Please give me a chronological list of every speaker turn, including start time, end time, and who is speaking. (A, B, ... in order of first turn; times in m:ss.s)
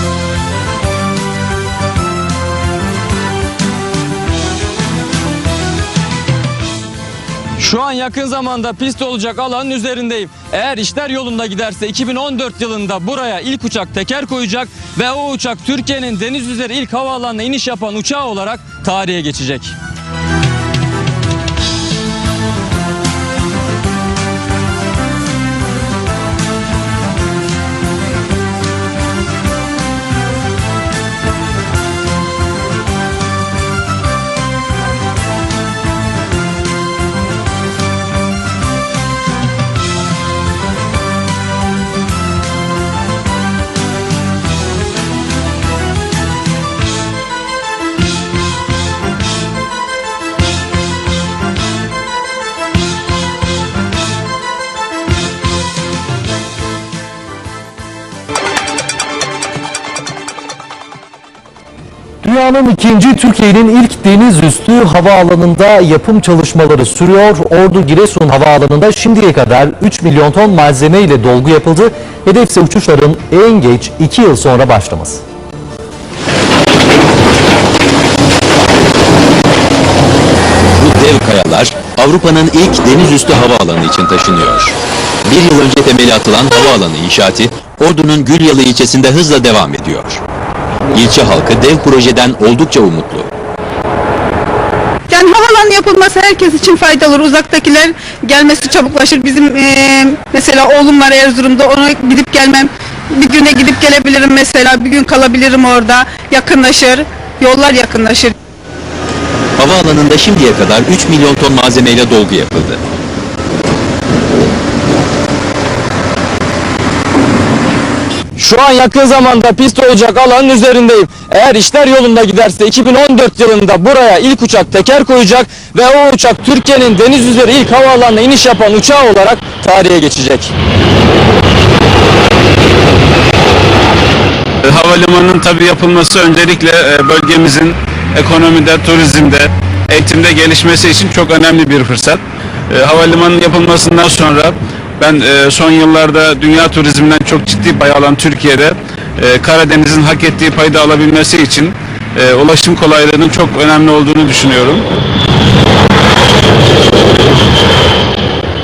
0:07.6-0:19.8 A
1:02.2-1:15.2 B
1:20.8-1:24.7 C
1:25.3-1:30.2 C
1:30.9-1:33.3 C
1:35.1-1:48.3 D
1:49.6-1:52.8 C
1:58.4-2:10.5 A
2:14.6-2:34.9 E